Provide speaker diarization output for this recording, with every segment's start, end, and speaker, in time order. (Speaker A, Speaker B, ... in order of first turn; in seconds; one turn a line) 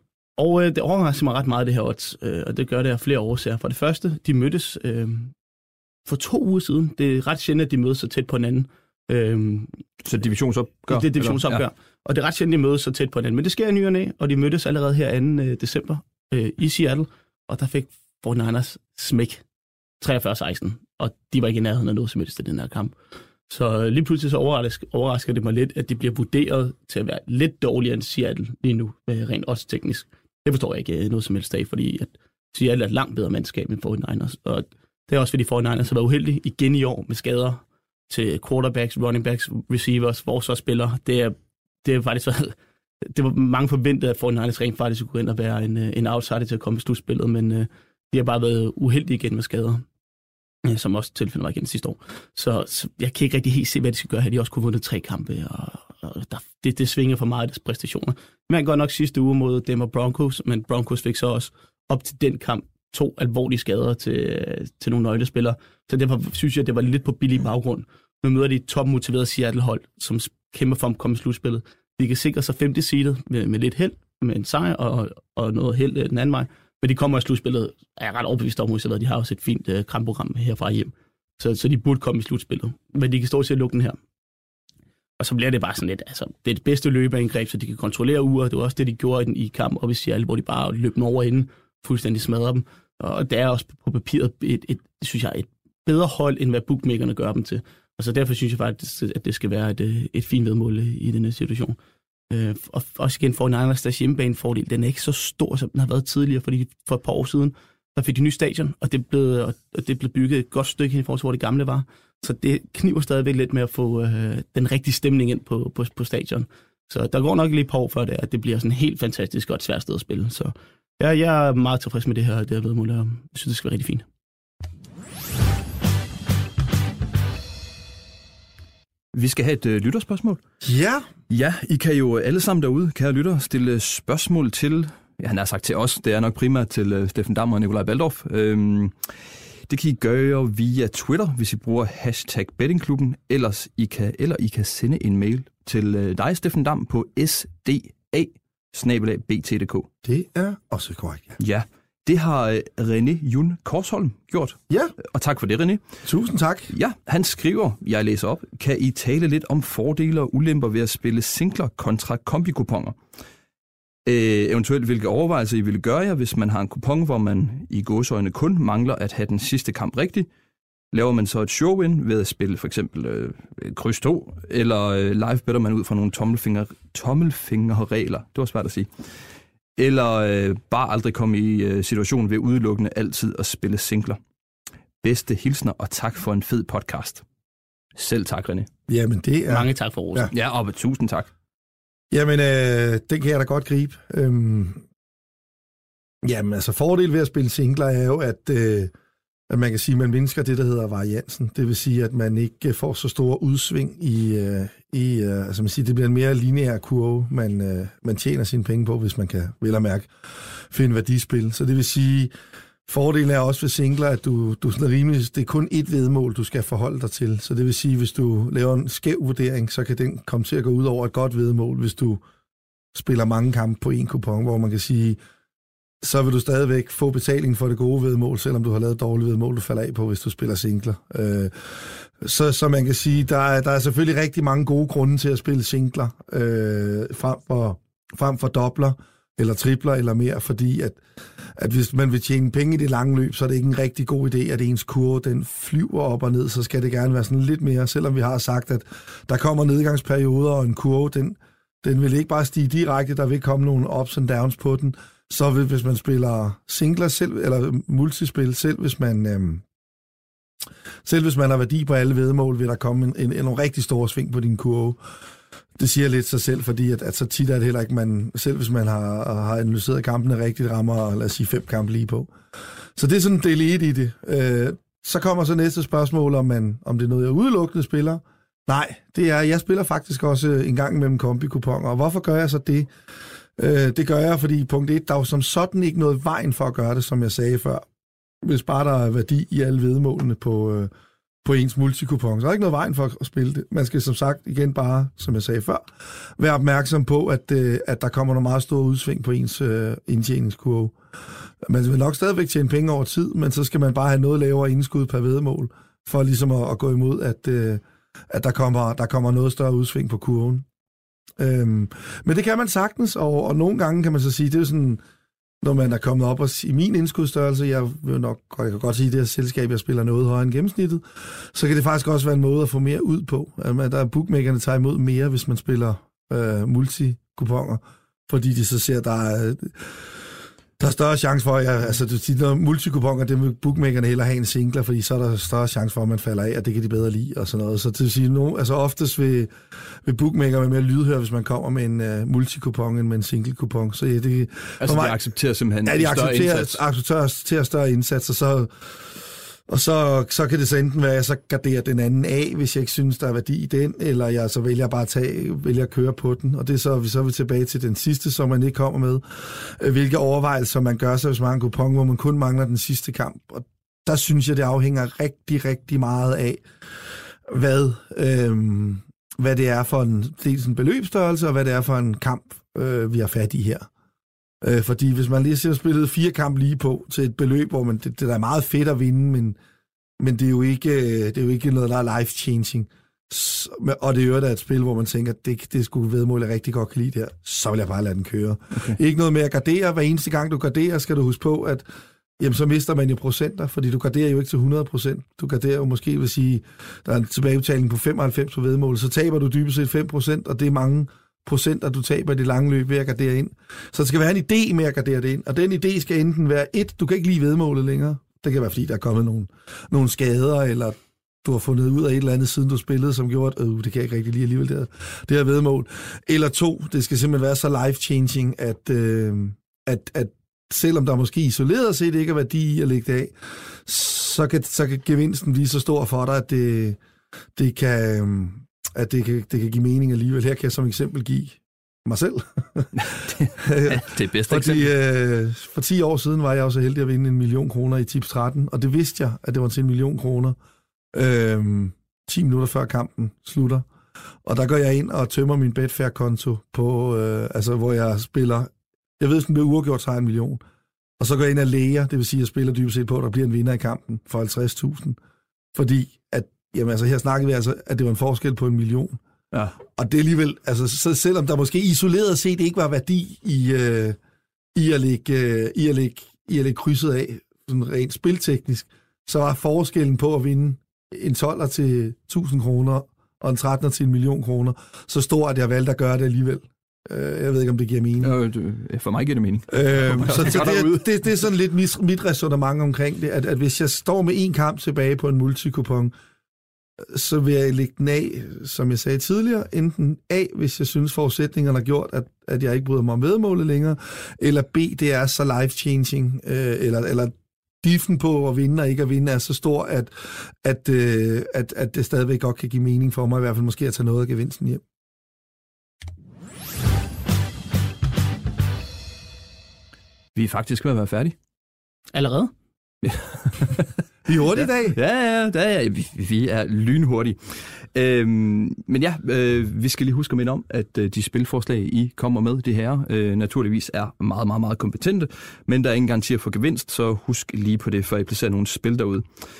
Speaker A: 0.4-5.3
Speaker A: 6.0-9.8
Speaker B: 10.0-11.6
Speaker A: 10.9-19.4
Speaker A: 20.0-22.9
Speaker A: 23.5-49.9
Speaker A: 50.6-84.0
Speaker A: 85.2-101.8
Speaker A: 102.3-124.1
Speaker B: 129.1-130.4
Speaker C: 130.6-131.1
Speaker B: 131.3-139.1
Speaker B: 139.7-149.9
Speaker C: 150.0-151.4
Speaker B: 151.4-155.8
Speaker C: 156.1-156.7
Speaker B: 156.7-163.0
Speaker B: 164.1-170.3
Speaker B: 170.9-178.9
Speaker B: 179.8-184.2
Speaker B: 185.0-187.2
Speaker B: 187.9-188.7
Speaker C: 188.9-190.3
Speaker A: 189.5-190.3
Speaker B: 190.3-191.3
Speaker C: 192.1-194.8
Speaker C: 196.2-198.9
Speaker C: 199.5-212.3
Speaker C: 212.9-222.2
Speaker C: 222.9-225.2
Speaker C: 226.0-241.0
Speaker C: 241.6-259.6
Speaker C: 261.1-265.0
Speaker C: 265.8-272.3
Speaker C: 273.0-282.9
Speaker C: 283.6-287.9
Speaker C: 288.4-290.9
Speaker C: 291.4-301.0
Speaker C: 301.6-310.6
Speaker C: 311.4-315.0
Speaker C: 315.6-330.1
Speaker C: 330.8-339.5
Speaker C: 340.0-345.2
Speaker B: 344.8-346.8
Speaker C: 345.9-366.6
Speaker C: 367.5-373.9
Speaker C: 374.6-379.6
Speaker C: 380.2-391.9
Speaker C: 392.4-427.0
Speaker C: 427.6-432.9
Speaker B: 433.0-434.9
Speaker C: 433.6-440.6
Speaker C: 441.1-443.9
Speaker C: 444.4-450.6
Speaker C: 451.2-455.2
Speaker C: 455.8-459.2
Speaker C: 459.9-464.2
Speaker C: 464.8-478.3
Speaker B: 478.2-481.1
Speaker C: 479.7-486.1
Speaker C: 487.0-504.8
Speaker B: 510.4-511.4
Speaker A: 512.1-512.5
Speaker B: 513.0-513.9
Speaker C: 514.3-515.0
Speaker B: 514.5-529.3